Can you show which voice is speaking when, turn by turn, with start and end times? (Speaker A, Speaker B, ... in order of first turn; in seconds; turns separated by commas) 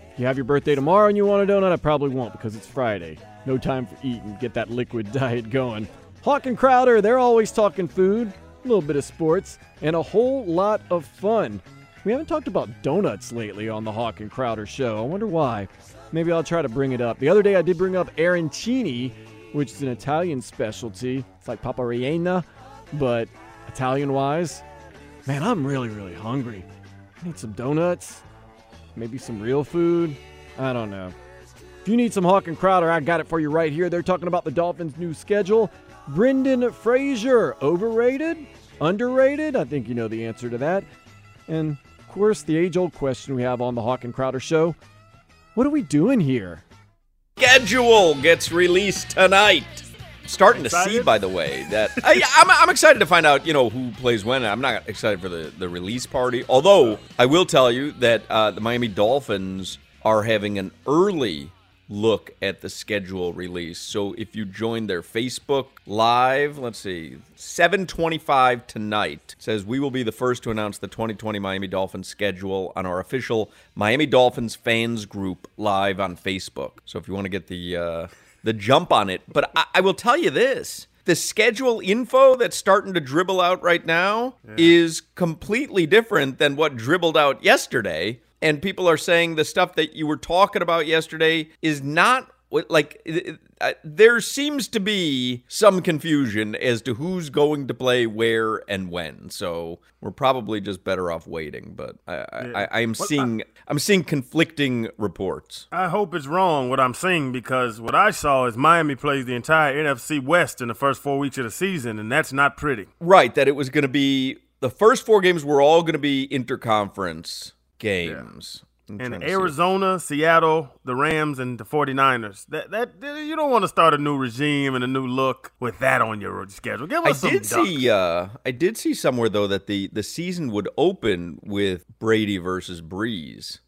Speaker A: 0.2-24.6, Speaker A: 25.3-26.7, Speaker A: 27.2-28.2, Speaker A: 28.9-31.1, Speaker A: 31.8-40.9, Speaker A: 41.5-44.8, Speaker A: 45.5-46.6, Speaker B: 47.4-105.7, Speaker C: 50.5-51.1, Speaker C: 84.4-84.8, Speaker C: 102.4-103.3, Speaker C: 105.7-112.9, Speaker B: 113.0-119.5, Speaker C: 119.0-127.8, Speaker B: 127.0-133.6